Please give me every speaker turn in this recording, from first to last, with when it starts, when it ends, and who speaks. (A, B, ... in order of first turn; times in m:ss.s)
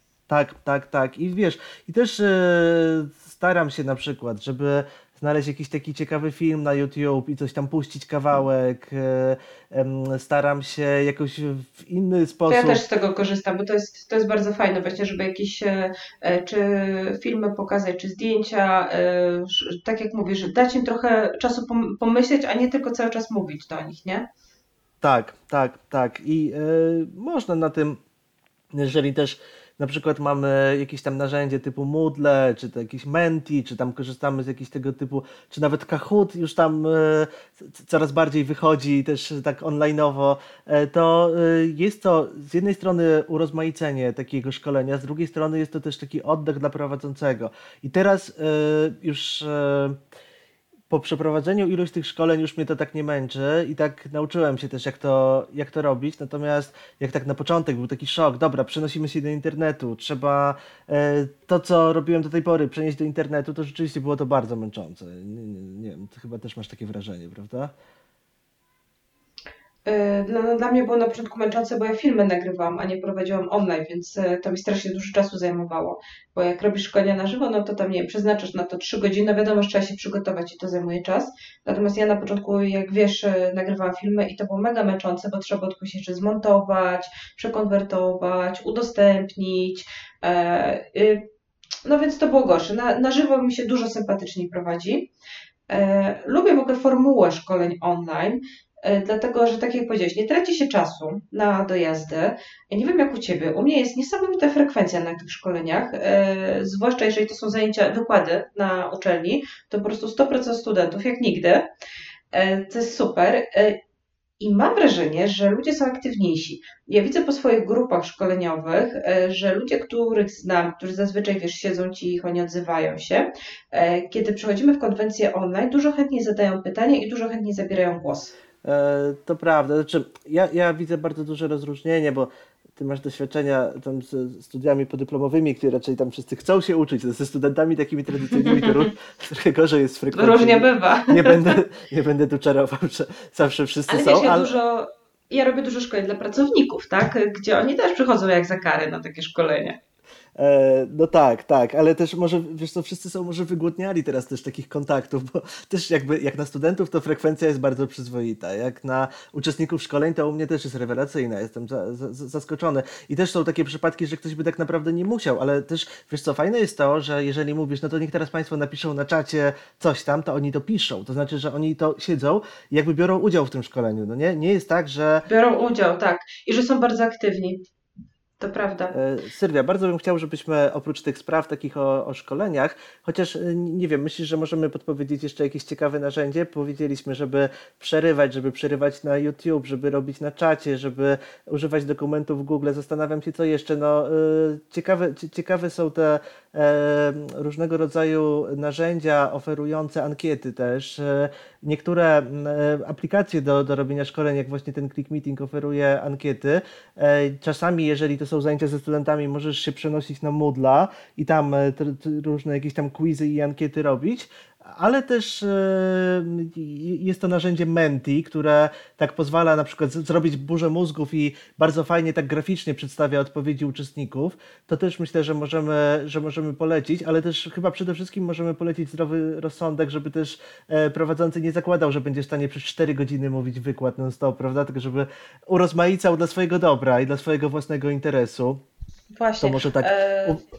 0:00.3-0:12.8 A
0:12.5-0:24.2 B
0:25.0-0:28.0 A
0:28.7-0:50.0 A
0:50.9-1:07.7 A
1:09.8-1:31.3 B
1:31.8-1:35.1 B
1:35.7-1:51.6 B
1:52.3-1:53.8 B
1:54.4-2:08.3 B
2:08.6-2:24.5 A
2:18.5-2:18.7 B
2:20.1-2:21.6 B
2:23.9-2:29.8 B
2:30.4-2:55.2 A
2:55.2-2:57.6 B
2:58.4-2:58.9 B
2:58.9-3:58.6 A
3:59.2-4:00.4 B
3:59.4-4:00.4 A